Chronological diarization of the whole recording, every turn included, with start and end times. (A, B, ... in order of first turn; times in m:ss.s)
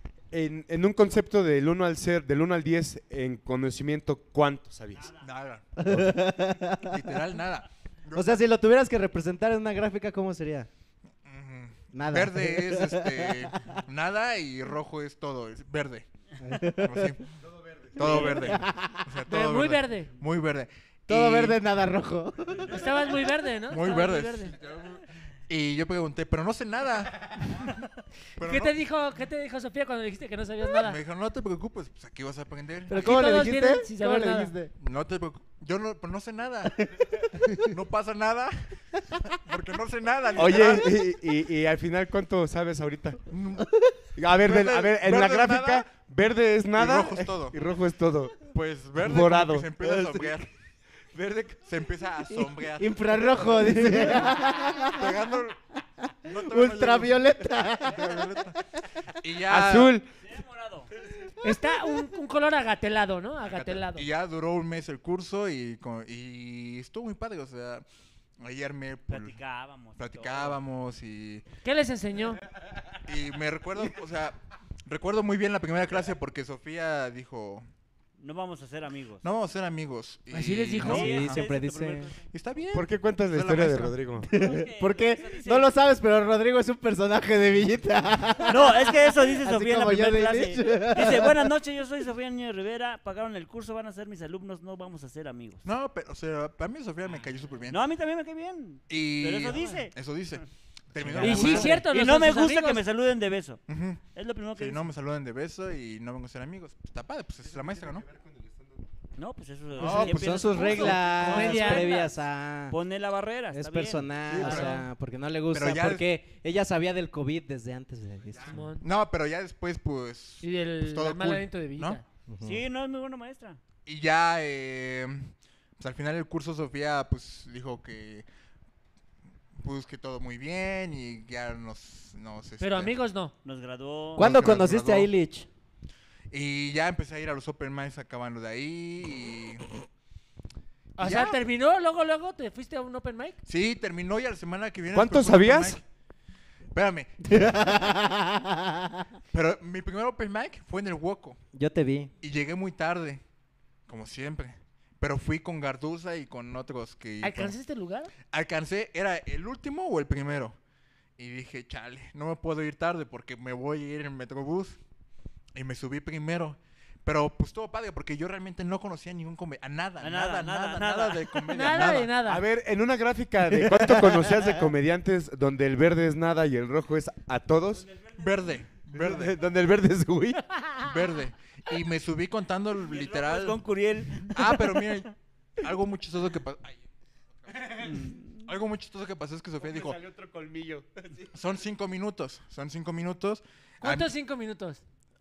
0:00.3-0:05.1 A
0:04.9-0:05.2 B
0:05.2-0:05.7 C
0:05.8-0:07.2 D
0:05.8-0:06.2 A
0:06.8-0:08.4 C
0:08.1-0:10.7 D
0:11.2-0:16.0 C
0:11.9-0:13.8 D
0:16.4-0:17.2 D
0:16.8-0:17.2 C
0:17.5-0:18.2 A
0:17.9-0:21.6 C
0:18.0-0:19.1 D
0:19.3-0:20.1 E
0:21.1-0:23.0 D
0:22.7-0:24.6 E
0:23.7-0:27.8 C
0:28.4-0:28.7 C
0:28.4-0:31.0 E
0:30.8-0:33.1 C
0:32.9-0:34.7 D
0:32.9-0:34.5 E
0:34.8-0:36.8 C
0:36.6-0:37.7 D
0:37.6-0:38.7 C
0:39.3-0:41.0 C
0:40.4-0:43.3 A
0:43.3-0:43.7 C
0:44.2-0:49.8 A
0:44.4-0:45.9 C
0:46.8-0:47.6 C
0:48.4-0:50.5 C
0:49.8-0:50.3 D
0:51.1-0:51.6 A
0:51.6-0:53.4 C
0:52.3-0:55.2 D
0:53.7-0:54.2 A
0:54.8-0:55.6 C
0:56.2-0:57.2 C
0:56.3-0:58.4 D
0:57.8-0:58.6 C
0:59.2-1:00.0 C
0:59.5-1:00.0 A
1:00.2-1:00.9 B
1:01.4-1:04.1 E
1:03.4-1:07.8 C
1:08.4-1:09.4 C
1:09.1-1:10.6 B
1:10.0-1:11.4 C
1:11.6-1:12.4 E
1:13.0-1:17.6 C
1:18.2-1:19.2 B
1:19.2-1:21.4 C
1:20.3-1:21.1 E
1:20.8-1:22.1 D
1:20.8-1:22.2 B
1:22.3-1:24.0 C
1:22.7-1:24.3 A
1:24.2-1:31.5 D
1:24.3-1:25.7 B
1:28.5-1:35.6 B
1:35.6-1:37.8 C
1:37.7-1:39.9 B
1:38.9-1:41.8 C
1:41.1-1:41.5 D
1:41.1-1:43.6 B
1:41.2-1:42.8 E
1:41.2-1:41.5 A
1:43.7-1:44.0 C
1:44.1-1:44.8 B
1:44.6-1:48.1 C
1:47.4-1:48.8 A
1:49.2-1:52.1 B
1:49.8-1:52.8 D
1:49.8-1:50.9 C
1:49.9-1:52.1 E
1:52.7-1:54.1 B
1:53.5-1:58.6 D
1:54.3-1:54.9 C
1:54.4-1:54.8 E
1:55.5-1:56.0 C
1:58.5-1:58.8 E
1:58.8-2:02.0 C
2:00.4-2:02.0 E
2:02.3-2:02.6 D
2:02.4-2:03.6 B
2:03.8-2:08.3 C
2:09.6-2:13.0 C
2:12.6-2:13.3 E
2:13.4-2:14.3 B
2:14.2-2:15.5 D
2:14.2-2:15.1 C
2:16.3-2:19.7 C
2:21.0-2:23.4 E
2:21.0-2:21.4 C
2:23.4-2:25.8 C
2:24.9-2:25.8 A
2:26.7-2:27.8 C
2:27.3-2:29.0 D
2:29.3-2:31.4 C
2:31.5-2:32.1 D
2:32.2-2:33.2 C
2:33.9-2:37.6 C
2:37.2-2:38.1 E
2:38.3-2:40.6 C
2:41.2-2:44.8 C
2:45.6-2:52.2 C
2:50.0-2:51.4 B
2:51.5-2:52.4 E
2:52.2-2:58.1 A
2:53.4-2:54.6 D
2:58.1-2:59.4 C
2:59.0-3:00.7 D
2:59.0-3:00.3 A
3:00.8-3:03.6 C
3:02.8-3:04.8 B
3:04.3-3:06.9 C
3:07.4-3:07.9 C
3:07.8-3:08.5 B
3:08.4-3:10.0 C
3:09.6-3:11.3 A
3:11.3-3:14.1 C
3:13.8-3:14.8 E